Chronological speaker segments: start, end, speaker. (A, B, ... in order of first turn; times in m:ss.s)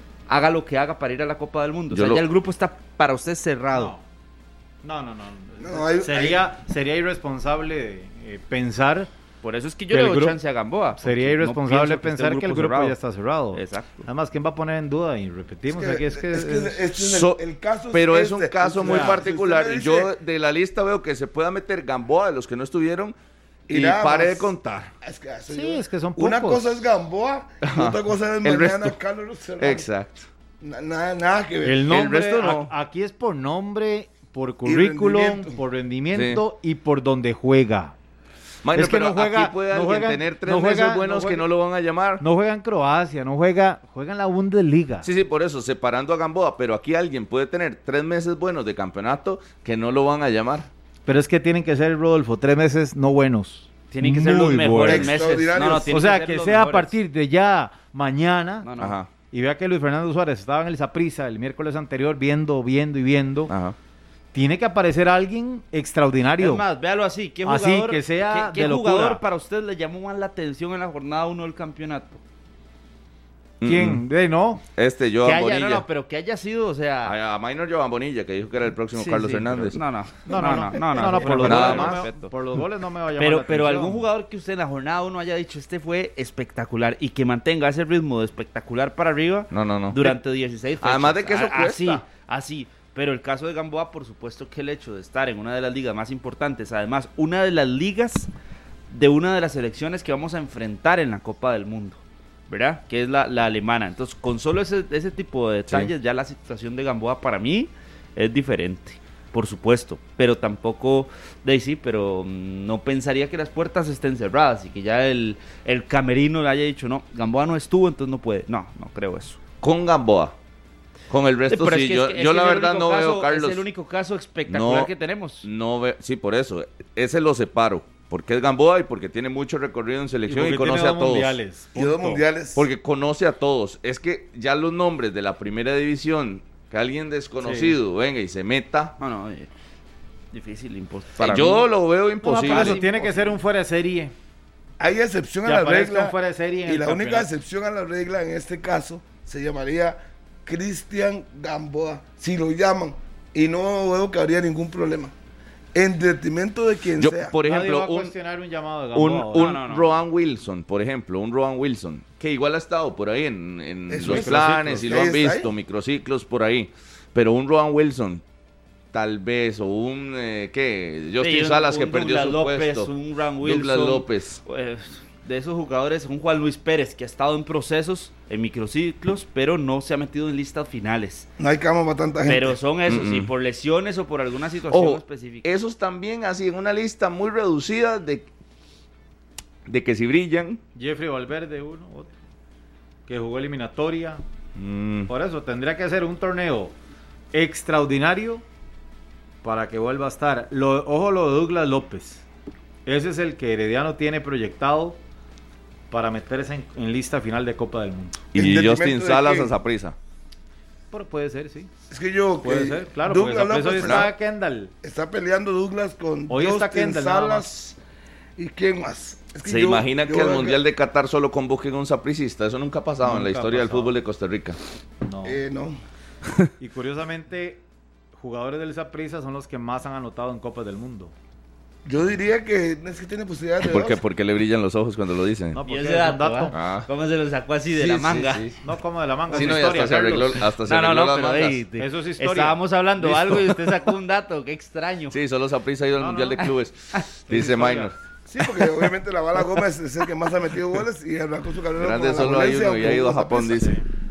0:00.3-0:03.9 A
0:01.9-0:02.2 B
0:03.7-0:04.0 C
0:04.8-0:09.1 C
0:05.6-0:06.4 D
0:09.4-0:13.0 A
0:09.9-0:10.4 C
0:11.0-0:16.8 C
0:13.5-0:14.0 A
0:15.7-0:20.1 D
0:16.9-0:23.2 B
0:18.8-0:19.2 C
0:23.7-0:29.9 D
0:23.7-0:24.9 B
0:25.5-0:26.8 C
0:27.6-0:29.0 B
0:29.6-0:30.3 B
0:30.6-0:31.9 D
0:31.6-0:37.9 C
0:31.9-0:32.7 B
0:34.6-0:35.6 D
0:36.1-0:36.4 B
0:38.6-0:42.2 B
0:38.7-0:41.4 C
0:42.2-0:45.1 C
0:45.0-0:50.7 B
0:51.0-0:55.2 C
0:53.9-0:56.9 A
0:54.8-0:55.9 D
0:55.9-0:58.7 C
0:58.6-0:59.0 A
0:58.8-0:59.1 B
0:59.3-1:03.5 C
1:03.5-1:03.8 B
1:04.3-1:06.6 C
1:06.4-1:12.2 A
1:07.4-1:09.2 C
1:13.6-1:14.0 B
1:13.6-1:14.6 C
1:14.7-1:15.8 B
1:15.2-1:17.2 A
1:17.0-1:19.8 B
1:18.9-1:22.3 A
1:20.3-1:24.0 C
1:21.2-1:22.0 B
1:23.2-1:38.3 A
1:29.5-1:30.2 B
1:30.8-1:32.0 B
1:38.9-1:59.4 A
1:59.6-2:00.3 B
2:01.1-2:03.6 B
2:01.5-2:05.5 A
2:04.5-2:04.9 B
2:05.4-2:11.4 B
2:10.3-2:12.2 C
2:11.7-2:12.6 D
2:12.5-2:19.0 B
2:17.4-2:17.8 C
2:19.0-2:19.5 A
2:20.3-2:21.7 A
2:21.2-2:22.8 B
2:22.2-2:24.1 C
2:22.3-2:23.3 A
2:24.8-2:35.1 D
2:25.4-2:27.3 C
2:35.7-2:37.3 D
2:37.0-2:38.1 B
2:37.4-2:39.6 C
2:38.9-2:48.2 B
2:39.3-2:40.0 A
2:43.9-2:45.5 D
2:44.0-2:45.0 C
2:48.9-2:54.4 B
2:51.2-3:01.3 A
3:01.4-3:02.6 D
3:02.2-3:05.5 A
3:02.9-3:03.3 B
3:04.7-3:08.3 B
3:09.6-3:10.6 B
3:10.7-3:12.1 C
3:13.1-3:14.2 C
3:14.6-3:15.1 B
3:15.1-3:16.7 C
3:17.3-3:18.4 C
3:19.4-3:22.2 C
3:22.8-3:25.0 C
3:25.9-3:28.2 C
3:28.3-3:30.0 B
3:28.3-3:29.5 D
3:30.9-3:31.7 C
3:31.9-3:34.1 D
3:32.4-3:34.7 C
3:33.7-3:34.1 B
3:34.8-3:37.7 D
3:36.3-3:37.7 C
3:38.4-3:40.6 D
3:39.4-3:44.6 B
3:43.0-3:43.9 C
3:45.0-3:45.4 C
3:45.2-3:45.8 D
3:46.6-3:47.6 C
3:48.2-3:51.1 C
3:51.8-3:54.0 D
3:53.6-3:55.6 B
3:55.5-3:56.5 C
3:55.7-3:58.5 A
3:56.5-3:56.9 B
3:57.7-3:58.6 B
3:58.6-4:00.4 C
3:59.3-4:01.6 B
4:00.5-4:05.2 A
4:01.8-4:03.6 C
4:05.1-4:08.0 B
4:06.0-4:06.4 C
4:07.3-4:07.9 C
4:08.3-4:13.7 D
4:11.8-4:13.8 B